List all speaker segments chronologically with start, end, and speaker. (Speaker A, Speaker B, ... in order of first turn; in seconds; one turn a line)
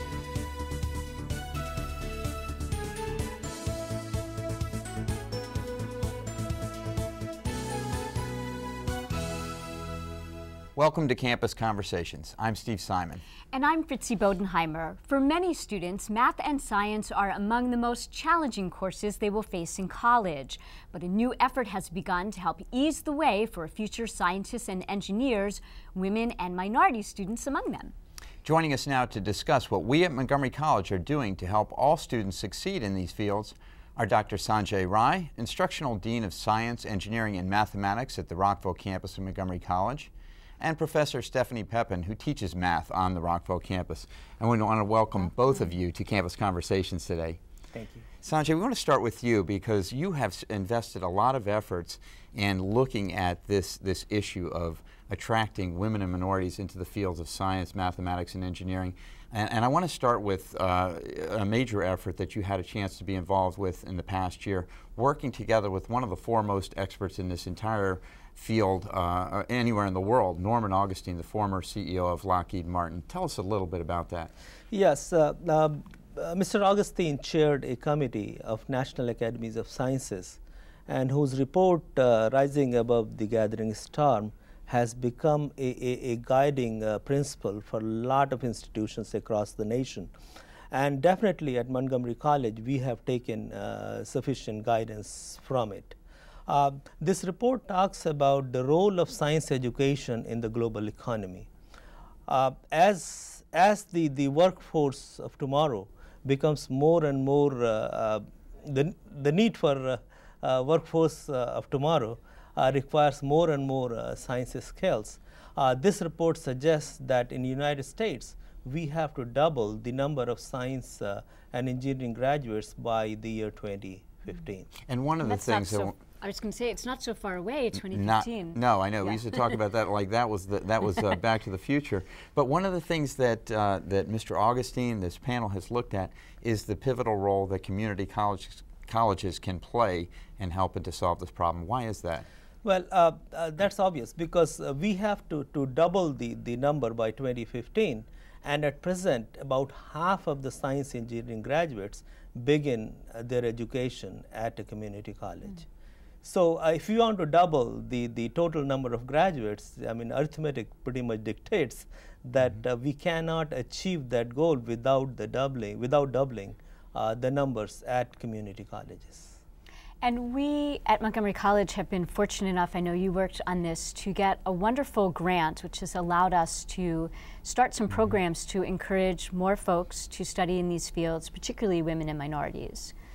Speaker A: 10.8-13.2
Speaker B: 13.5-27.9
Speaker A: 28.4-47.4
Speaker C: 47.7-48.1
Speaker A: 48.2-74.3
Speaker C: 74.7-90.1
Speaker C: 90.7-96.0
Speaker C: 96.5-101.5
Speaker C: 102.3-124.7
Speaker A: 124.8-126.0
Speaker B: 125.2-129.5
Speaker A: 127.8-142.2
Speaker C: 142.6-155.7
Speaker C: 156.2-169.4
Speaker B: 170.0-182.9